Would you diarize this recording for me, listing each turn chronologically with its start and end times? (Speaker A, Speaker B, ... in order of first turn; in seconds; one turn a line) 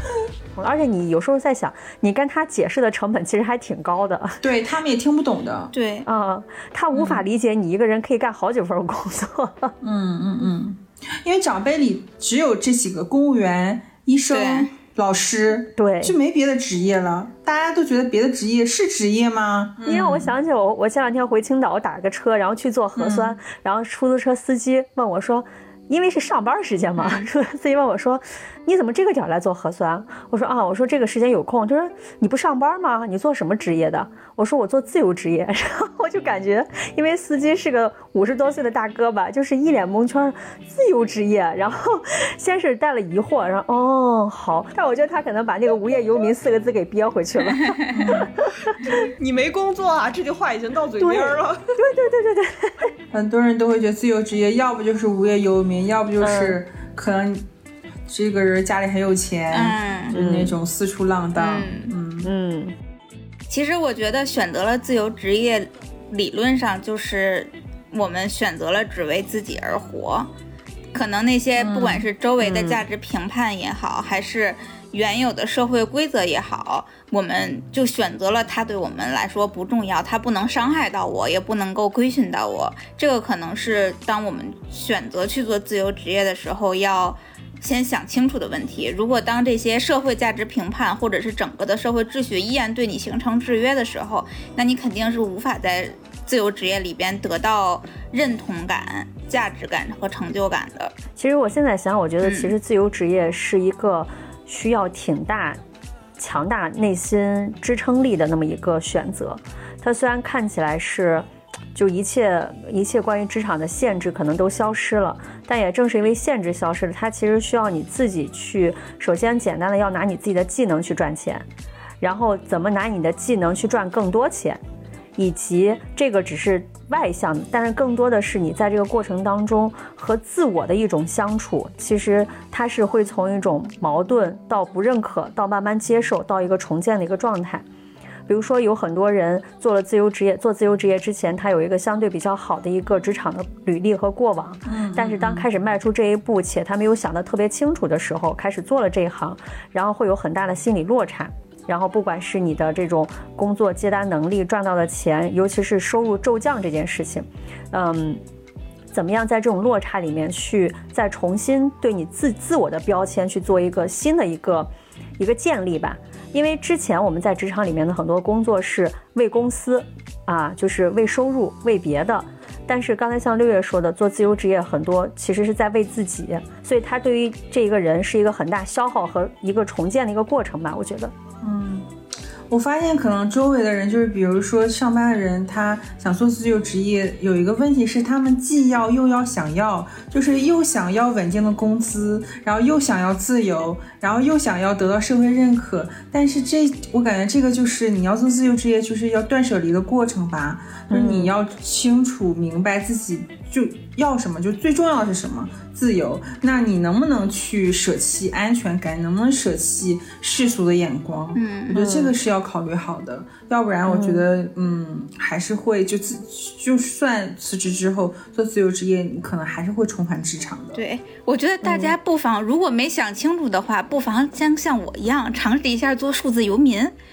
Speaker A: 0.5-4.4
Speaker B: 4.4-5.7
Speaker C: 5.7-6.1
Speaker A: 6.0-9.7
Speaker B: 6.9-7.2
Speaker B: 9.8-20.3
Speaker C: 14.3-14.7
Speaker A: 15.8-16.1
Speaker A: 19.8-48.2
Speaker B: 22.9-23.4
Speaker B: 47.9-48.3
Speaker D: 48.9-51.6
Speaker A: 51.0-52.9
Speaker B: 53.1-57.4
Speaker A: 56.2-56.6
Speaker B: 58.1-62.3
Speaker C: 59.5-60.1
Speaker A: 60.1-60.6
Speaker C: 61.4-61.9
Speaker A: 62.2-62.8
Speaker C: 63.5-70.3
Speaker C: 70.9-100.9
Speaker B: 71.6-72.1
Speaker A: 72.4-72.8
Speaker A: 101.2-105.6
Speaker C: 102.2-102.5
Speaker A: 106.2-121.5
Speaker A: 122.0-124.6
Speaker A: 125.2-137.6
Speaker A: 138.3-158.2
Speaker B: 144.7-145.5
Speaker A: 158.9-181.1
Speaker B: 181.4-181.9
Speaker B: 182.5-220.8
Speaker A: 200.9-201.3
Speaker C: 211.3-211.8
Speaker A: 211.7-212.1
Speaker A: 213.9-214.2
Speaker C: 220.7-226.9
Speaker A: 221.7-221.9